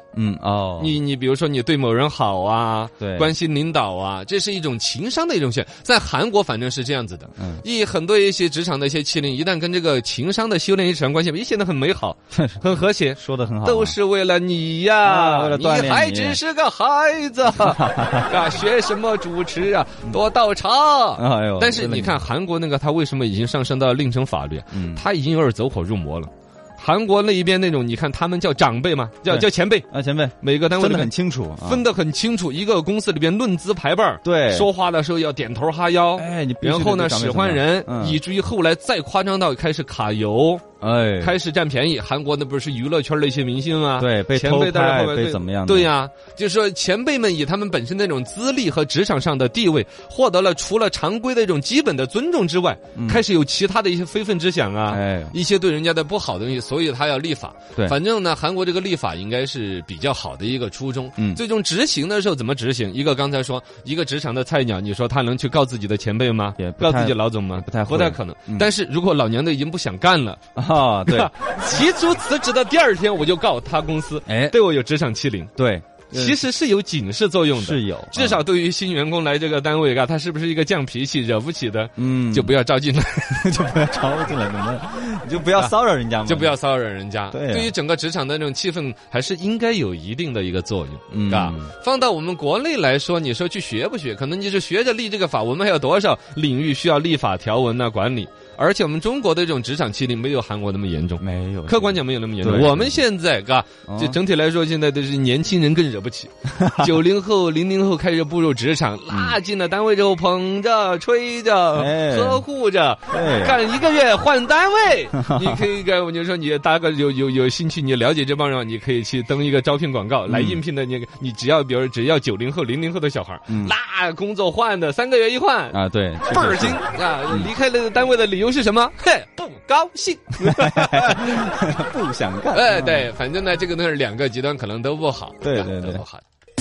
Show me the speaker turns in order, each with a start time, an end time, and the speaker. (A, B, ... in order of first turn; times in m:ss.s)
0:00.1-0:01.0 A
0:00.8-0:29.9 B
0:03.0-0:03.4 A
0:07.4-0:07.6 A
0:12.3-0:14.0 A
0:15.0-0:16.4 A
0:17.5-0:18.3 A
0:21.2-0:22.2 A
0:24.7-0:25.0 A
0:29.3-0:31.8 A
0:30.4-0:31.1 B
0:31.6-0:40.6 B
0:34.2-0:34.7 A
0:36.1-0:38.2 A
0:40.8-0:41.4 A
0:41.2-1:10.4 B
0:44.0-0:45.9 A
0:52.9-0:53.2 A
0:54.9-0:55.4 A
1:06.6-1:08.7 A
1:10.6-1:11.3 A
1:11.0-1:15.5 B
1:14.3-1:14.6 A
1:15.6-1:16.4 A
1:16.1-1:23.4 B
1:17.5-1:18.4 A
1:22.0-1:22.5 A
1:23.3-1:26.6 A
1:26.2-2:11.5 B
1:27.3-1:27.7 A
1:31.1-1:31.7 A
1:41.2-1:43.0 A
1:43.9-1:44.2 A
1:46.6-1:46.9 A
1:49.1-1:49.4 A
1:51.7-1:52.4 A
1:53.1-1:53.6 A
1:55.1-1:55.6 A
2:00.3-2:00.6 A
2:03.5-2:03.7 A
2:05.7-2:07.5 A
2:10.4-2:13.1 A
2:12.5-2:16.2 B
2:15.4-2:16.0 A